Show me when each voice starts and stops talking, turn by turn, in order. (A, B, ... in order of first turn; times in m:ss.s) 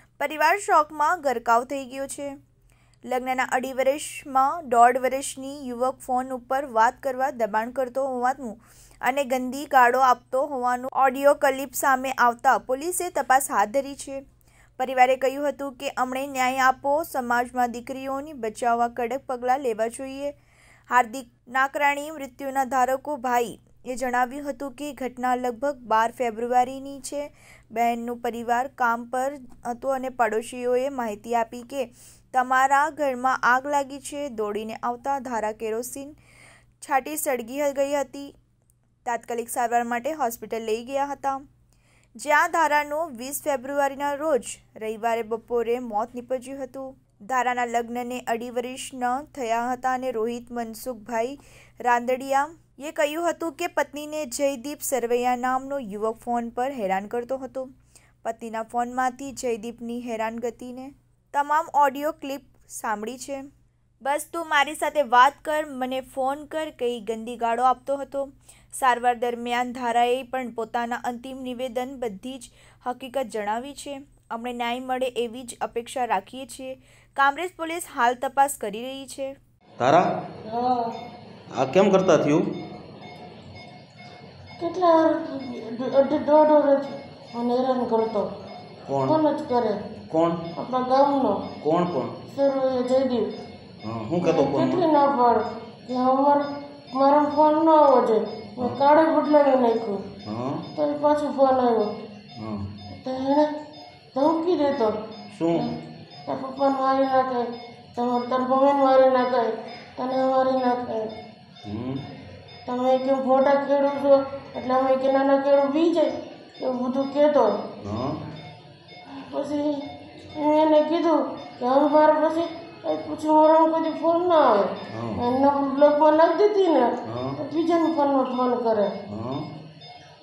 0:00.2-0:02.3 A
0:03.1-0:14.2 A
0:14.8-0:20.3 A
0:20.9-0:36.2 A
0:36.8-0:38.3 A
0:39.0-0:41.4 A
0:42.2-0:57.7 A
0:58.2-1:03.5 A
1:04.0-1:19.3 A
1:19.8-1:20.1 B
1:20.5-1:20.9 C
1:21.5-1:22.4 B
1:24.6-1:28.3 C
1:28.9-1:29.2 B
1:29.0-1:29.8 C
1:30.1-1:30.4 B
1:30.6-1:31.5 C
1:31.6-1:32.2 B
1:32.3-1:33.3 C
1:33.8-1:34.8 B
1:34.2-1:40.0 C
1:40.2-1:40.6 B
1:40.8-1:41.9 C
1:42.4-1:42.7 B
1:43.0-1:43.5 C
1:44.1-1:45.0 C
1:45.3-1:45.7 B
1:46.3-1:51.1 C
1:51.6-1:52.0 B
1:52.6-1:57.5 C
1:57.8-1:58.2 B
1:59.3-1:59.8 C
2:00.3-2:08.9 C
2:04.9-2:05.2 B
2:07.0-2:07.4 B
2:09.0-2:09.5 B